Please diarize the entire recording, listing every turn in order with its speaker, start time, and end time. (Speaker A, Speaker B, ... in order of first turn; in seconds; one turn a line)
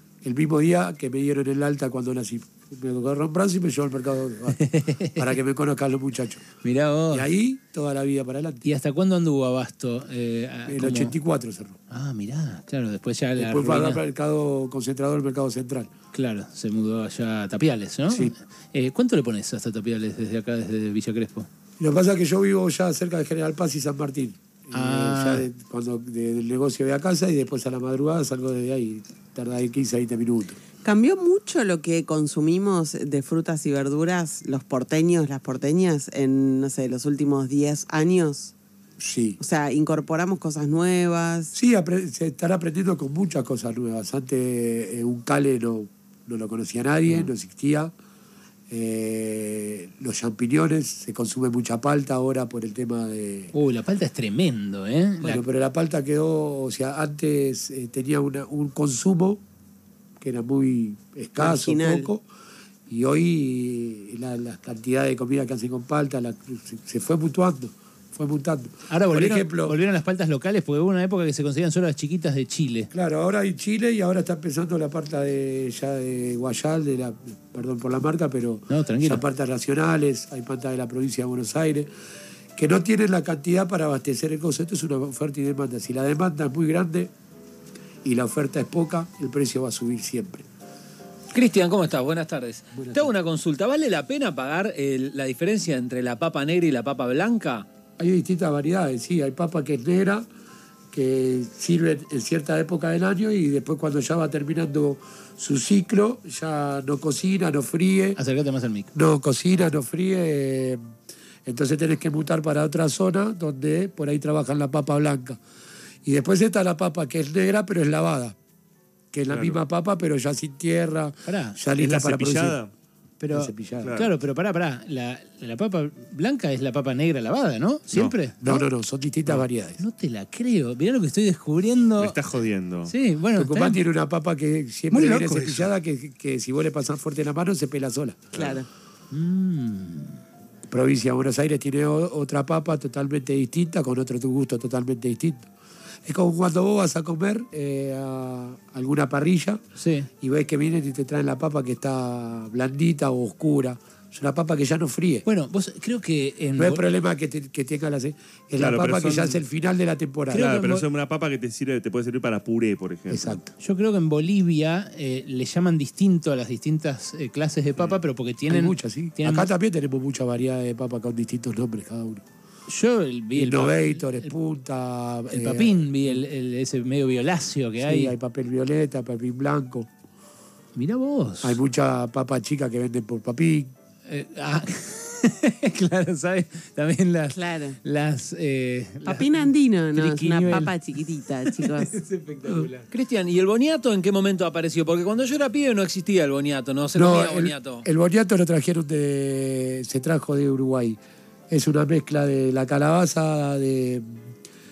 Speaker A: 0.2-4.6
Speaker B: 4.6-5.2
Speaker A: 5.1-6.4
Speaker B: 6.6-7.3
Speaker A: 7.1-8.6
Speaker B: 8.6-11.1
Speaker A: 10.7-11.8
Speaker B: 11.9-14.0
Speaker A: 13.3-15.9
Speaker B: 16.1-21.5
Speaker A: 21.8-30.6
Speaker B: 24.7-25.4
Speaker C: 30.8-38.5
Speaker A: 39.0-39.4
Speaker C: 39.4-41.5
Speaker A: 41.5-47.9
Speaker A: 48.7-53.5
Speaker B: 53.5-55.4
Speaker A: 55.2-59.4
Speaker A: 60.2-62.2
Speaker C: 61.4-62.1
Speaker A: 62.9-69.8
Speaker B: 68.9-72.9
Speaker A: 72.9-81.9
Speaker B: 78.7-79.2
Speaker A: 82.5-87.1
Speaker A: 88.0-90.4
Speaker D: 91.3-97.7
Speaker A: 92.7-93.1
Speaker A: 98.0-100.2
Speaker A: 100.9-108.2
Speaker B: 108.2-108.9
Speaker A: 108.9-110.8
Speaker A: 111.5-115.4
Speaker A: 116.0-118.3
Speaker A: 119.1-122.6
Speaker E: 119.3-119.6
Speaker B: 121.2-121.6
Speaker E: 121.8-122.7
Speaker B: 123.2-128.6
Speaker A: 123.3-124.0
Speaker E: 123.8-124.1
Speaker E: 127.9-128.1
Speaker A: 128.4-129.8
Speaker B: 129.8-132.2
Speaker E: 132.0-132.9
Speaker B: 132.9-133.8
Speaker A: 133.3-138.3
Speaker B: 134.9-135.7
Speaker C: 138.3-138.7
Speaker B: 139.1-140.2
Speaker A: 140.7-145.5
Speaker A: 146.1-149.6
Speaker B: 149.8-150.1
Speaker A: 150.2-155.2
Speaker B: 155.2-156.8
Speaker A: 156.6-160.5
Speaker E: 158.6-159.4
Speaker B: 160.3-160.8
Speaker E: 160.3-163.4
Speaker A: 163.1-163.5
Speaker B: 163.6-169.5
Speaker A: 168.5-172.2
Speaker B: 172.7-174.3
Speaker A: 173.3-176.2
Speaker B: 175.3-178.1
Speaker A: 177.8-179.9
Speaker B: 180.7-181.6
Speaker A: 181.4-183.7
Speaker B: 184.1-192.9
Speaker C: 187.3-187.8
Speaker C: 189.0-191.9
Speaker D: 192.9-197.8
Speaker A: 196.9-201.0
Speaker A: 201.5-204.2